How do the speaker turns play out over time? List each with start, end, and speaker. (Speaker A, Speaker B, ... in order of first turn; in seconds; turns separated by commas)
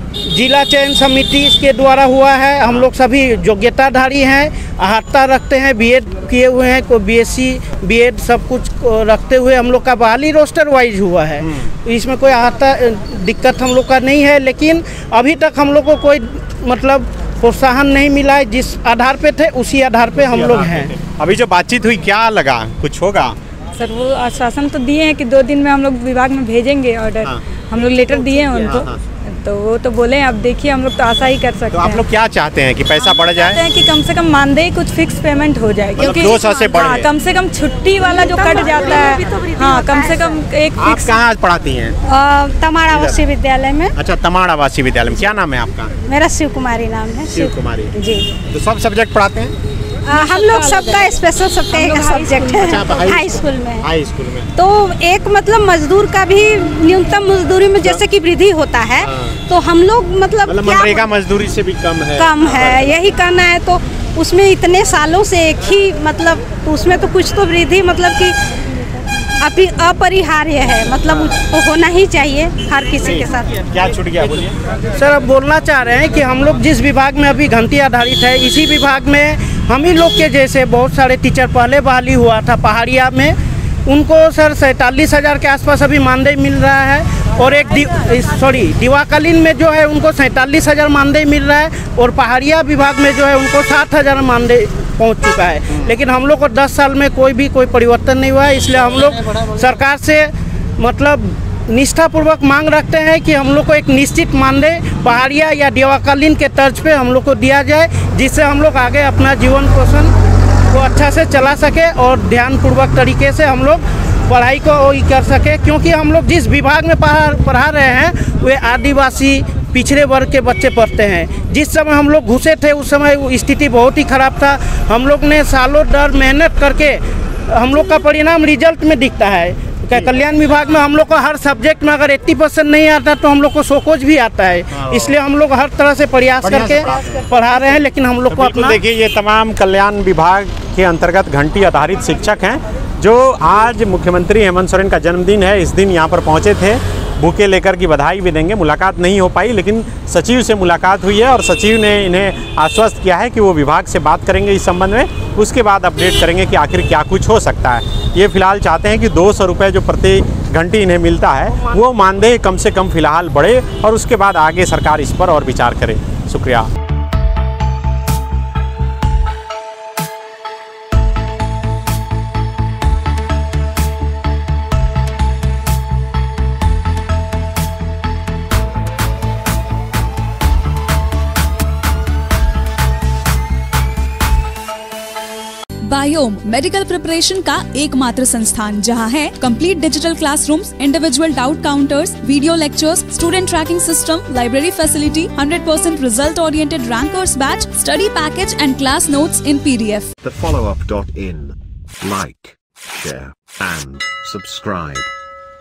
Speaker A: 0.3-20.9, Speaker B: 20.2-23.3, Speaker C: 23.8-28.9, Speaker B: 28.6-29.0, Speaker C: 29.4-32.0, Speaker B: 31.7-33.6, Speaker C: 32.9-41.2, Speaker B: 36.0-37.1, Speaker D: 38.0-40.3, Speaker B: 40.8-42.0, Speaker D: 42.1-43.9, Speaker B: 42.9-43.2, Speaker B: 43.9-45.9, Speaker D: 46.0-48.3, Speaker B: 47.3-47.9, Speaker B: 48.5-49.5, Speaker D: 50.1-53.9, Speaker C: 50.1-52.7, Speaker B: 52.6-54.5, Speaker D: 54.5-61.1, Speaker B: 59.0-59.4, Speaker B: 60.4-63.0, Speaker D: 62.2-68.4, Speaker D: 69.4-73.5, Speaker B: 71.1-71.4, Speaker B: 73.0-74.5, Speaker A: 74.9-110.1, Speaker A: 110.7-138.8, Speaker B: 134.7-135.1, Speaker B: 136.4-137.2, Speaker B: 138.3-166.7, Speaker A: 161.5-161.8, Speaker E: 185.8-200.1, Speaker F: 200.2-205.1